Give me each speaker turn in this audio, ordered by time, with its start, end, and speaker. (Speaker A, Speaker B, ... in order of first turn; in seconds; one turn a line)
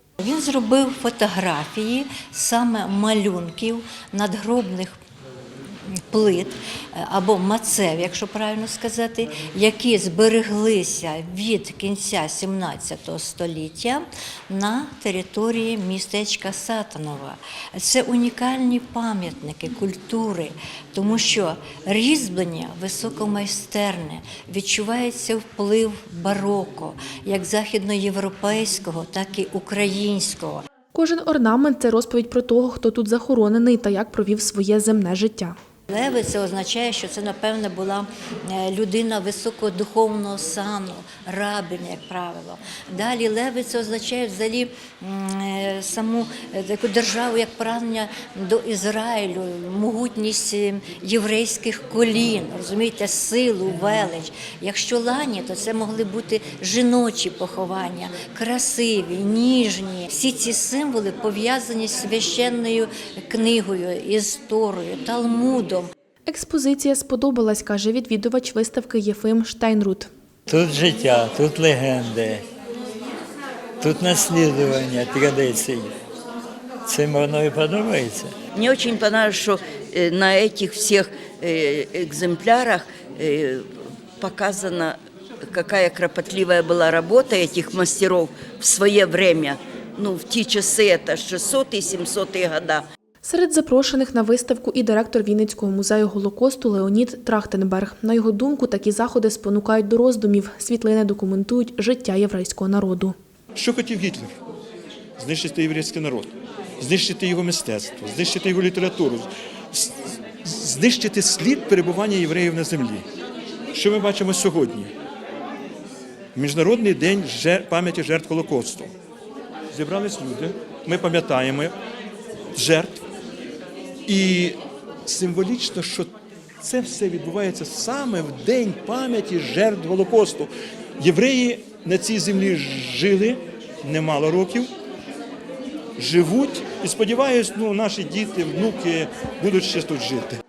Speaker A: 0.2-5.0
Speaker A: 5.9-30.7
Speaker B: 30.9-35.5
Speaker A: 35.9-65.9
Speaker B: 66.2-70.1
Speaker C: 70.5-72.4
Speaker C: 73.8-75.9
Speaker C: 76.8-78.3
Speaker D: 78.5-83.7
Speaker D: 84.2-92.8
Speaker B: 93.2-103.1
Speaker E: 103.6-104.4
Speaker E: 105.2-113.0
Speaker E: 113.7-114.9
Speaker E: 116.4-118.9
Speaker E: 119.7-121.7
Speaker E: 122.6-123.0
Speaker E: 124.1-134.7
Speaker E: 136.0-140.4